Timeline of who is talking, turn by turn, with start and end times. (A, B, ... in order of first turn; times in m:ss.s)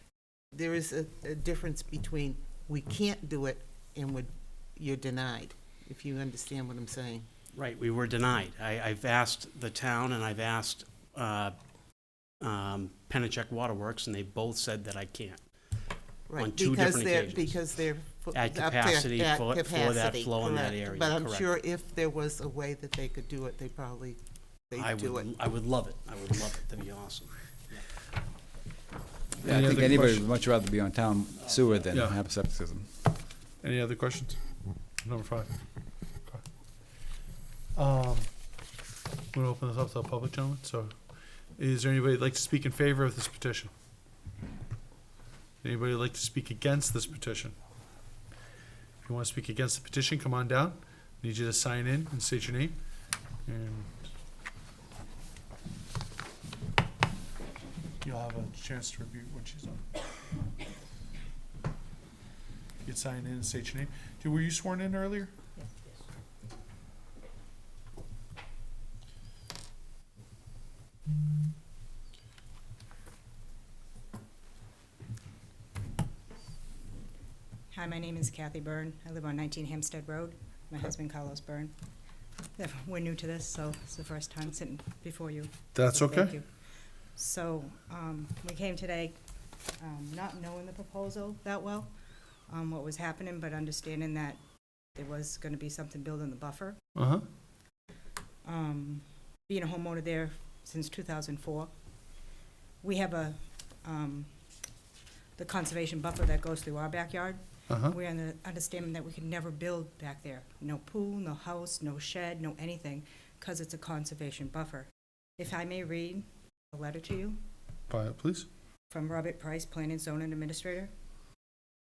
0:00.5-0:07.2 A
0:07.5-0:11.6 B
0:12.4-0:15.4 B
0:16.3-0:25.3 A
0:16.4-0:17.6 B
0:18.3-0:21.6 B
0:24.7-0:27.3 B
0:29.4-0:32.9 C
0:29.4-0:30.3 D
0:31.4-0:31.9 B
0:31.9-0:32.2 D
0:33.6-0:34.4 D
0:35.0-0:35.5 D
0:37.7-0:38.3 D
0:39.3-0:40.9 D
0:41.6-0:43.7 D
0:45.6-0:47.5 D
0:49.0-0:52.7 D
0:53.5-0:53.9 D
0:58.0-0:59.8 D
1:02.8-1:05.3 D
1:17.7-1:21.7 E
1:22.6-1:26.5 E
1:25.8-1:26.3 D
1:27.2-1:29.2 E
1:29.8-1:31.9 E
1:32.5-1:34.4 E
1:34.9-1:36.8 E
1:37.0-1:37.2 D
1:38.4-1:41.7 E
1:42.8-1:44.3 E
1:45.4-1:57.4 E
1:57.9-1:58.5 D
1:58.9-2:00.9 E